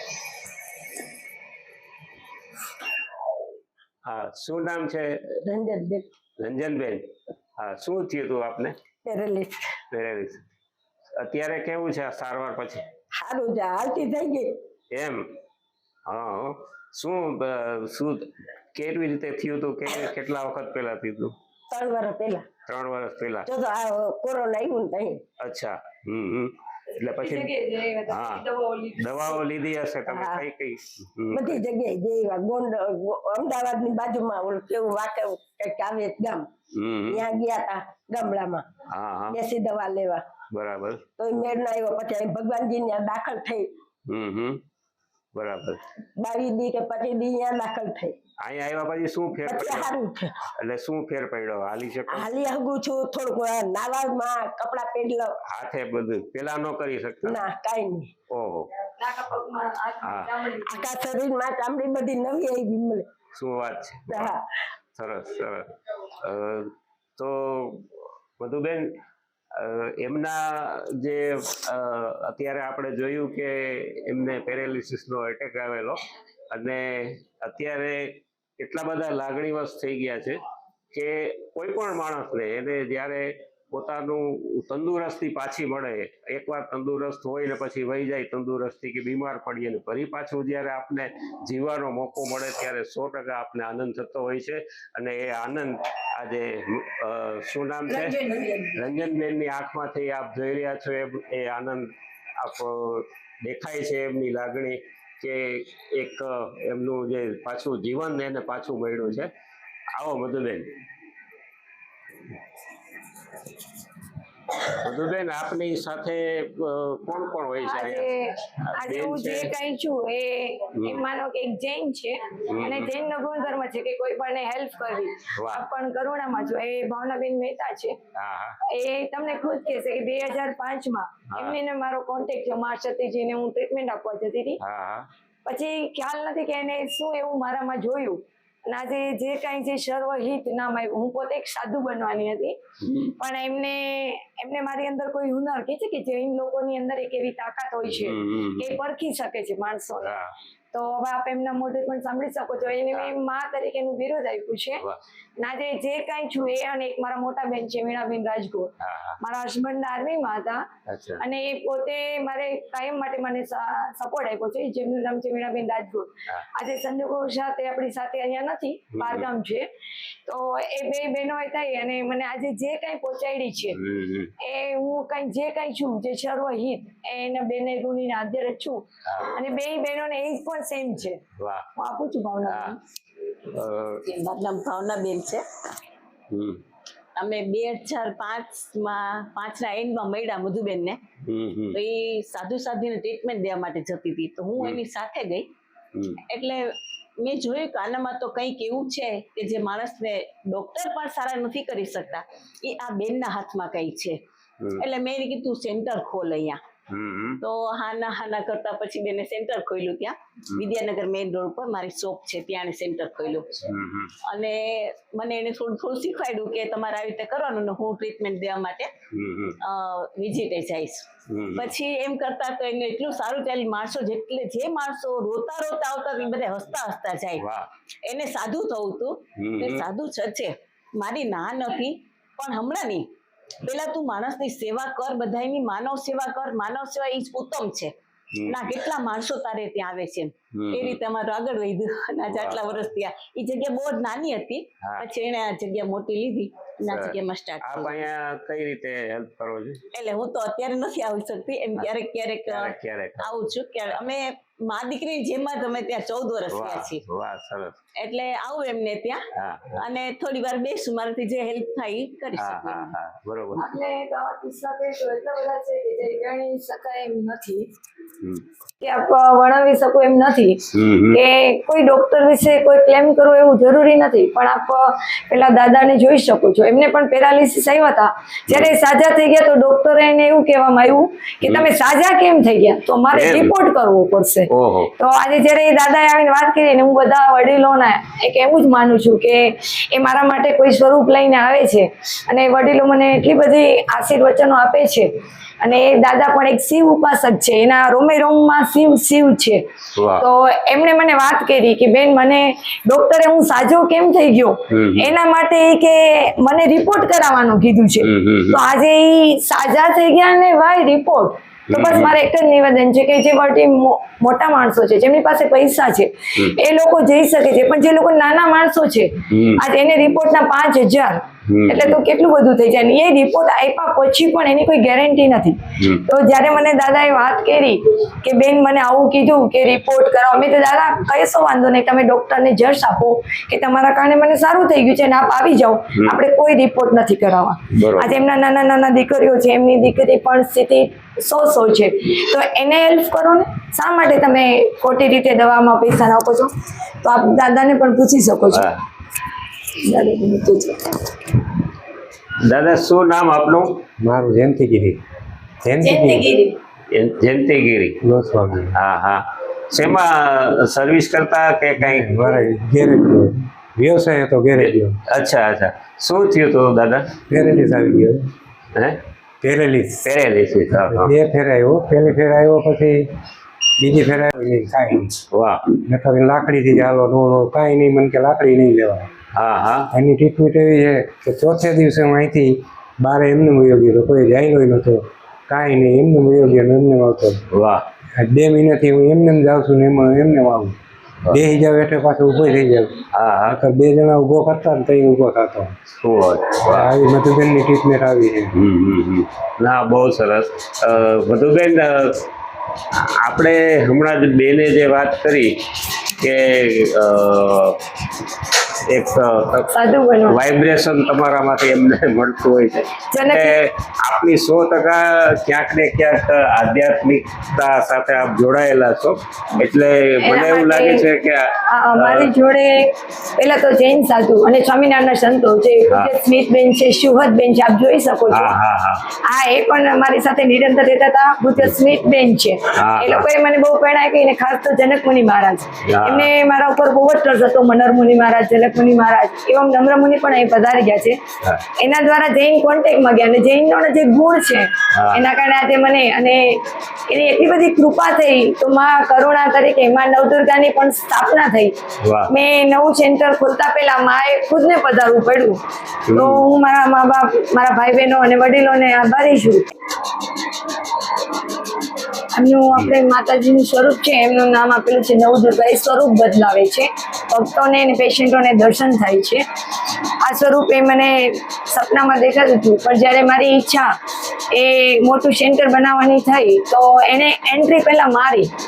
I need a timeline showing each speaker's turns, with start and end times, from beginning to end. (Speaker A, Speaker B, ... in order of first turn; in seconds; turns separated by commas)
Speaker A: 4.0-5.2, Speaker B: 5.4-6.1, Speaker A: 6.4-8.8, Speaker B: 9.0-9.7, Speaker A: 9.9-10.4, Speaker A: 11.1-12.8, Speaker B: 13.2-14.6, Speaker A: 14.9-15.3, Speaker A: 16.1-21.3, Speaker B: 21.7-22.5, Speaker A: 22.7-23.5, Speaker B: 23.4-25.2, Speaker A: 25.4-27.5, Speaker C: 26.9-29.4, Speaker A: 28.1-28.4, Speaker A: 29.0-31.6, Speaker B: 30.1-30.4, Speaker B: 31.3-36.5, Speaker A: 36.7-37.2, Speaker B: 37.1-38.7, Speaker A: 38.9-39.4, Speaker B: 39.3-40.2, Speaker A: 40.5-41.0, Speaker B: 41.2-43.7, Speaker A: 44.1-44.6, Speaker A: 45.3-45.8, Speaker B: 46.1-48.1, Speaker A: 48.4-49.9, Speaker B: 49.4-50.4, Speaker A: 50.6-52.3, Speaker B: 52.1-55.3, Speaker A: 55.5-57.4, Speaker B: 57.2-58.1, Speaker A: 58.3-58.7, Speaker C: 59.0-60.9, Speaker A: 60.0-60.3, Speaker B: 60.6-63.1, Speaker A: 63.3-64.3, Speaker B: 64.1-64.4, Speaker A: 64.9-68.9, Speaker A: 69.5-80.4, Speaker A: 80.9-98.2, Speaker B: 98.0-98.7, Speaker A: 98.7-109.3, Speaker A: 109.9-110.7, Speaker A: 114.7-119.5, Speaker C: 117.6-128.0, Speaker A: 120.7-121.0, Speaker A: 122.5-122.9, Speaker A: 125.3-125.6, Speaker A: 128.1-128.6, Speaker C: 128.7-134.6, Speaker A: 131.3-131.6, Speaker A: 134.6-135.1, Speaker C: 135.4-150.2, Speaker A: 142.8-143.1, Speaker A: 147.8-148.7, Speaker A: 150.0-150.3, Speaker C: 150.7-154.8, Speaker C: 155.4-160.7, Speaker A: 158.8-159.2, Speaker A: 160.9-161.2, Speaker C: 161.2-169.7, Speaker A: 168.9-169.3, Speaker C: 170.2-173.8, Speaker A: 173.7-174.3, Speaker C: 174.4-181.2, Speaker A: 179.0-179.4, Speaker A: 181.3-181.7, Speaker C: 181.8-182.8, Speaker A: 182.5-182.8, Speaker A: 183.5-184.0, Speaker D: 184.0-185.4, Speaker A: 186.3-186.6, Speaker D: 187.2-191.0, Speaker A: 191.2-191.8, Speaker D: 191.7-195.5, Speaker A: 195.9-196.2, Speaker D: 196.3-204.2, Speaker D: 204.8-206.6, Speaker A: 206.9-207.4, Speaker D: 207.4-213.7, Speaker A: 213.6-214.1, Speaker D: 214.2-218.9, Speaker A: 219.1-219.6, Speaker D: 219.6-227.4, Speaker A: 221.3-221.7, Speaker A: 227.4-227.7, Speaker D: 228.0-233.1, Speaker A: 229.4-229.9, Speaker D: 233.6-237.9, Speaker A: 238.3-238.6, Speaker D: 238.5-248.1, Speaker A: 240.5-241.0, Speaker A: 242.3-242.9, Speaker A: 244.8-245.1, Speaker A: 246.9-249.8, Speaker D: 249.9-257.0, Speaker A: 252.4-253.4, Speaker A: 256.5-257.8, Speaker D: 257.9-259.2, Speaker A: 259.3-259.8, Speaker D: 259.8-262.9, Speaker A: 262.3-263.7, Speaker C: 263.6-267.7, Speaker C: 268.8-299.6, Speaker A: 270.7-271.2, Speaker A: 281.4-281.7, Speaker A: 283.1-283.5, Speaker A: 284.5-284.9, Speaker A: 299.9-300.2, Speaker C: 300.2-346.5, Speaker A: 304.7-305.1, Speaker A: 308.0-308.6, Speaker A: 311.7-312.1, Speaker A: 319.3-319.6, Speaker A: 321.5-322.0, Speaker A: 325.8-326.0, Speaker A: 337.7-338.1, Speaker C: 347.0-348.7, Speaker A: 348.5-348.8, Speaker C: 349.8-351.3, Speaker A: 352.4-353.8, Speaker E: 354.0-355.0, Speaker E: 355.6-356.3, Speaker C: 355.8-356.6, Speaker A: 356.9-358.0, Speaker E: 358.0-358.8, Speaker A: 358.7-362.2, Speaker E: 361.8-365.0, Speaker A: 364.5-367.1, Speaker E: 367.3-368.3, Speaker A: 368.7-369.0, Speaker E: 369.4-370.1, Speaker A: 370.0-371.1, Speaker E: 370.9-373.1, Speaker E: 373.8-375.1, Speaker A: 375.3-375.6, Speaker E: 375.8-379.1, Speaker A: 379.3-379.9, Speaker E: 379.9-387.4, Speaker A: 387.5-387.8, Speaker E: 388.1-390.8, Speaker E: 391.3-395.8, Speaker A: 393.1-393.6, Speaker A: 396.0-396.9, Speaker E: 396.6-398.5, Speaker A: 398.5-402.2, Speaker A: 402.9-405.6, Speaker A: 406.2-407.8, Speaker A: 408.9-422.3, Speaker C: 409.7-410.4, Speaker C: 413.1-413.5, Speaker C: 420.2-421.1, Speaker C: 421.6-428.5, Speaker A: 428.3-429.0, Speaker C: 429.2-441.2, Speaker A: 432.7-433.2, Speaker A: 435.8-436.3, Speaker C: 441.8-451.7, Speaker A: 444.9-445.2, Speaker A: 452.0-452.3, Speaker C: 452.3-455.6, Speaker A: 456.1-456.4, Speaker C: 456.1-459.7, Speaker C: 462.3-469.4, Speaker C: 470.2-473.9, Speaker C: 474.5-478.5